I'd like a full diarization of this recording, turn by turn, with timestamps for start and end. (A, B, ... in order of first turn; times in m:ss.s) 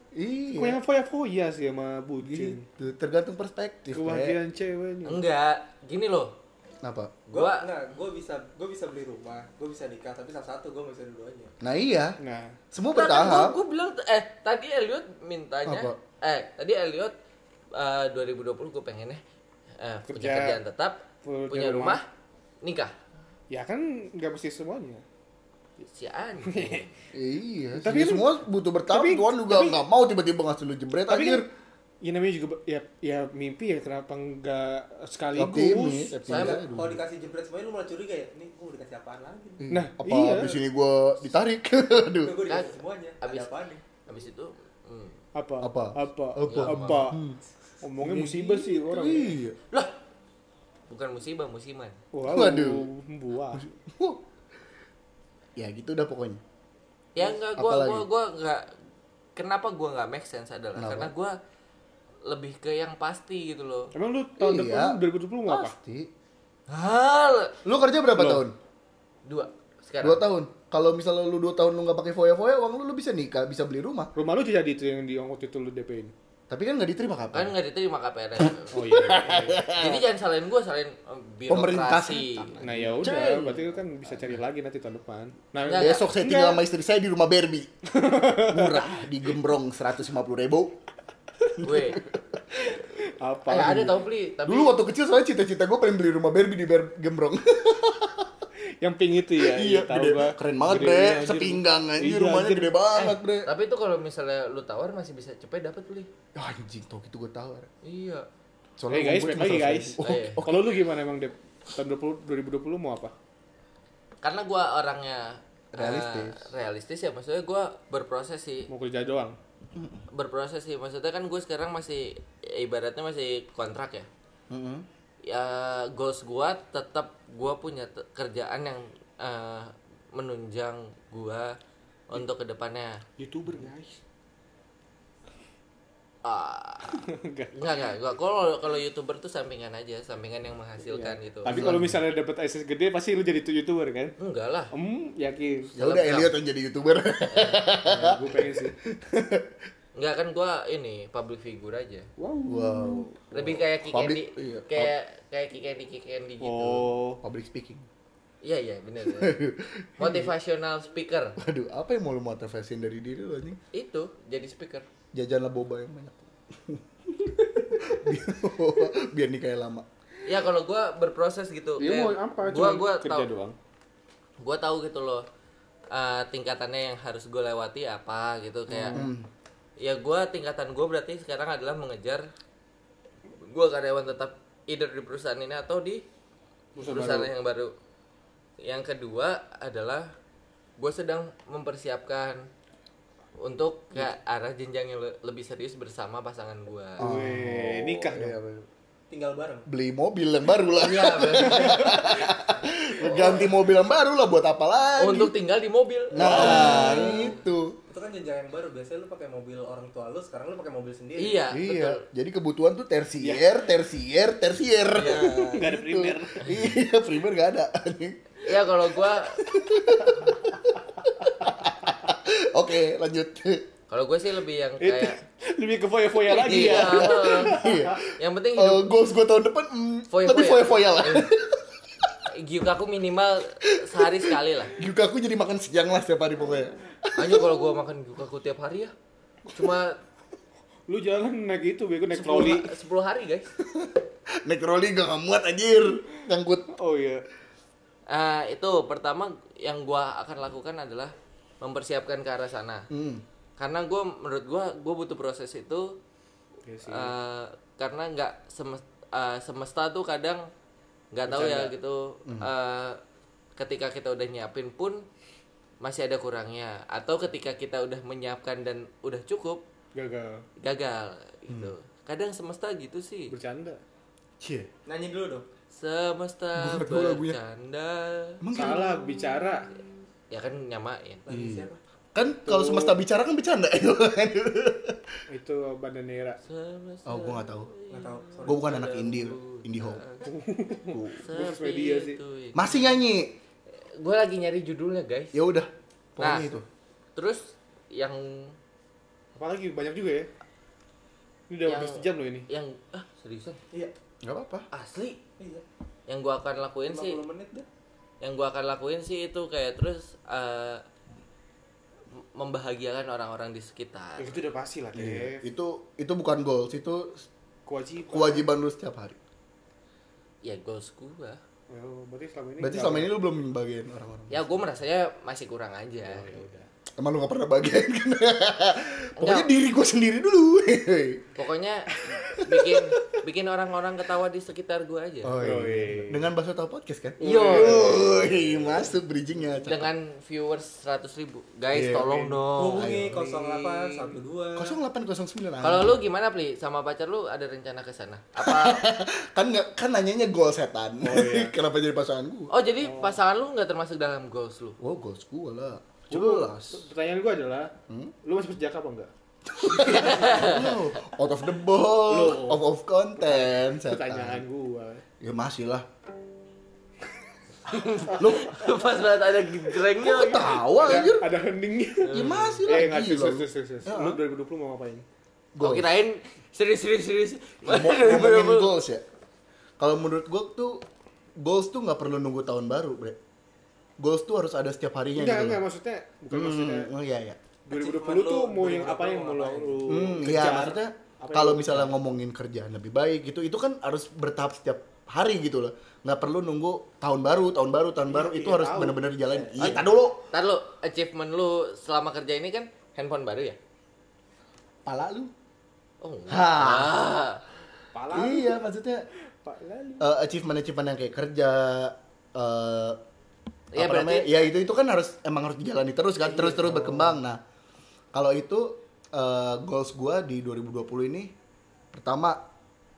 0:00.1-0:00.8 A
0:00.5-0:02.6 B
0:02.2-0:04.4 A
0:03.9-0:05.2 B
0:05.0-0:06.3 C
0:06.8-0:07.1 A
0:07.3-0:07.7 C
0:07.3-0:11.5 D
0:11.6-0:12.2 A
0:12.2-0:12.6 B
0:12.7-0:13.6 A
0:12.9-0:17.1 C
0:15.6-0:16.0 A
0:17.7-0:19.2 C
0:19.8-0:22.0 C
0:20.1-0:20.6 B
0:21.2-0:22.0 B
0:22.6-0:22.9 C
0:23.5-0:25.0 B
0:25.9-0:26.9 C
0:26.4-0:26.9 B
0:27.1-0:31.5 A
0:27.8-0:29.8 B
0:31.1-0:31.5 B
0:32.0-0:36.1 B
0:35.3-0:37.0 A
0:36.2-0:36.6 C
0:36.4-0:39.6 D
0:39.6-0:42.4 A
0:39.7-0:40.6 B
0:42.1-0:43.8 D
0:42.5-0:43.5 C
0:44.0-0:45.2 C
0:45.3-0:47.2 B
0:45.6-0:47.4 A
0:46.4-0:47.1 C
0:47.8-0:49.4 B
0:48.0-0:49.6 A
0:50.9-0:52.0 C
0:52.1-0:53.6 B
0:52.3-0:52.9 A
0:53.5-0:54.2 A
0:55.6-0:56.4 A
0:57.1-0:58.7 C
0:57.6-0:58.0 A
0:59.4-1:01.3 C
1:00.8-1:01.1 A
1:02.2-1:03.9 C
1:03.9-1:05.7 B
1:04.4-1:06.1 A
1:06.7-1:07.5 C
1:07.6-1:08.5 A
1:08.2-1:08.4 B
1:09.2-1:10.2 C
1:10.0-1:14.1 A
1:14.2-1:16.1 B
1:16.5-1:17.5 A
1:17.3-1:22.5 C
1:18.7-1:19.6 B
1:18.8-1:20.0 A
1:21.5-1:24.4 A
1:22.6-1:26.6 B
1:25.6-1:26.0 C
1:25.8-1:27.7 A
1:27.9-1:28.8 B
1:28.4-1:30.8 A
1:31.5-1:32.1 A
1:31.6-1:32.0 C
1:33.0-1:33.9 B
1:33.5-1:34.7 C
1:33.5-1:38.3 A
1:38.8-1:42.7 B
1:39.4-1:43.5 A
1:43.0-1:46.1 C
1:46.4-1:47.7 A
1:47.8-1:48.2 C
1:48.8-1:50.6 A
1:48.9-1:53.1 B
1:50.0-1:50.4 C
1:54.2-1:58.7 C
1:55.7-1:56.5 A
1:58.7-1:59.4 B
1:59.7-2:00.0 A
2:00.1-2:04.1 C
2:04.5-2:04.8 A
2:05.2-2:11.6 C
2:12.1-2:13.0 C
2:13.2-2:14.0 B
2:16.2-2:17.0 C
2:16.9-2:17.9 B
2:17.5-2:21.6 C
2:20.8-2:24.1 B
2:21.5-2:22.0 A
2:24.2-2:24.7 C
2:24.7-2:25.7 B
2:25.7-2:29.5 A
2:25.8-2:26.3 C
2:27.3-2:27.7 C
2:27.9-2:28.7 B
2:29.9-2:32.1 C
2:32.2-2:33.2 B
2:32.4-2:34.9 A
2:33.3-2:36.9 C
2:36.4-2:37.2 B
2:37.2-2:37.8 A
2:38.4-2:39.4 C
2:39.1-2:40.3 A
2:40.0-2:41.4 C
2:41.4-2:43.6 A
2:43.7-2:44.8 C
2:45.1-2:49.8 A
2:50.2-2:53.3 C
2:51.8-2:53.6 B
2:54.4-2:55.2 C
2:55.9-2:59.0 C
2:58.7-2:59.1 B
2:58.9-2:59.3 A
2:59.8-3:02.3 C
3:03.4-3:06.0 C
3:06.7-3:07.3 B
3:06.8-3:07.7 C
3:08.6-3:10.1 C
3:10.8-3:12.4 C
3:13.4-3:17.0 C
3:17.0-3:18.7 A
3:17.0-3:18.4 B
3:19.1-3:19.7 D
3:19.7-3:25.3 A
3:20.7-3:22.1 C
3:23.1-3:23.5 B
3:25.0-3:27.4 C
3:26.1-3:27.8 A
3:26.2-3:27.1 B
3:27.9-3:31.4 D
3:31.2-3:32.0 C
3:31.5-3:43.6 A
3:33.2-3:33.6 B
3:35.0-3:35.2 C
3:35.0-3:36.7 B
3:38.4-3:39.4 C
3:40.0-3:40.2 B
3:43.9-3:45.2 C
3:44.8-3:48.0 B
3:46.3-3:47.6 C
3:46.3-3:52.2 A
3:48.2-3:48.9 C
3:50.1-3:51.3 C
3:52.3-3:54.7 C
3:53.6-3:57.8 A
3:57.1-3:58.9 C
3:59.5-4:00.0 C
4:00.9-4:02.7 B
4:02.1-4:03.5 C
4:03.6-4:06.7 A
4:06.7-4:07.2 B
4:08.1-4:12.9 C
4:12.9-4:13.2 A
4:13.6-4:16.0 C
4:16.6-4:17.1 B
4:16.8-4:20.5 C
4:21.1-4:23.0 C
4:21.2-4:21.7 B
4:23.6-4:25.0 C
4:25.8-4:29.6 C
4:29.9-4:30.4 B
4:30.6-4:33.3 C
4:31.5-4:31.7 A
4:33.3-4:33.8 B
4:34.4-4:34.7 A
4:34.8-4:35.5 D
4:35.7-4:38.4 C
4:36.5-4:37.4 A
4:38.4-4:39.0 A
4:38.5-4:39.7 B
4:40.3-4:41.2 C
4:41.2-4:41.8 D
4:41.3-4:45.2 A
4:42.4-4:43.0 B
4:45.3-4:46.4 B
4:46.4-4:50.3 C
4:47.0-4:47.7 A
4:47.9-4:48.8 D
4:48.4-4:50.0 A
4:50.2-4:52.2 B
4:50.9-4:51.2 A
4:51.2-4:52.9 C
4:52.5-4:53.3 A
4:53.8-4:55.4 C
4:55.3-4:56.6 A
4:56.2-4:56.6 C
4:57.1-4:58.6 C
4:59.3-5:00.3 B
5:01.5-5:02.5 B
5:01.6-5:03.6 C
5:04.2-5:04.7 A
5:04.7-5:05.2 C
5:05.4-5:05.6 D
5:06.1-5:07.2 C
5:06.9-5:07.7 D
5:08.2-5:10.8 C
5:12.3-5:14.4 C
5:14.2-5:15.4 B
5:14.9-5:17.3 A
5:17.6-5:18.5 B
5:18.1-5:19.2 A
5:20.4-5:21.4 C
5:21.7-5:23.1 B
5:22.6-5:24.6 A
5:24.3-5:26.2 C
5:26.0-5:26.7 B
5:27.0-5:31.2 A
5:29.2-5:29.5 C
5:31.4-5:35.4 C
5:32.4-5:32.7 A
5:35.2-5:39.9 A
5:35.4-5:36.3 B
5:37.2-5:38.6 C
5:37.4-5:38.0 B
5:39.6-5:43.0 C
5:41.7-5:42.1 A
5:42.0-5:42.4 B
5:42.6-5:44.8 D
5:42.7-5:43.3 A
5:43.2-5:43.8 B
5:44.6-5:46.0 A
5:45.6-5:48.8 C
5:48.4-5:52.5 A
5:51.0-5:51.5 B
5:52.5-5:54.8 C
5:52.8-5:53.2 B
5:54.8-5:56.8 A
5:56.1-5:57.7 B
5:58.2-5:59.1 B
5:59.5-6:04.4 A
5:59.7-6:00.8 C
6:02.1-6:02.6 B
6:03.2-6:05.0 B
6:05.2-6:05.8 A
6:07.7-6:11.0 C
6:08.2-6:08.6 A
6:10.0-6:11.3 A
6:10.8-6:15.0 B
6:12.1-6:12.6 C
6:12.1-6:14.2 A
6:15.6-6:15.9 A
6:15.6-6:18.7 C
6:17.6-6:19.0 A
6:19.8-6:20.8 A
6:21.4-6:23.2 A
6:24.0-6:25.6 A
6:25.1-6:26.9 B
6:26.3-6:27.4 A
6:27.7-6:32.0 B
6:27.7-6:29.9 D
6:29.8-6:40.2 A
6:38.1-6:39.0 B
6:39.2-6:39.8 D
6:40.3-6:43.6 C
6:44.8-6:45.3 A
6:46.0-6:47.4 C
6:46.3-6:47.0 A
6:47.9-6:48.6 B
6:48.1-6:49.0 A
6:49.4-6:50.1 B
6:50.0-6:53.0 A
6:53.7-6:54.3 C
6:53.8-6:57.4 A
6:56.2-6:57.2 B
6:58.1-7:01.3 A
7:01.9-7:02.4 A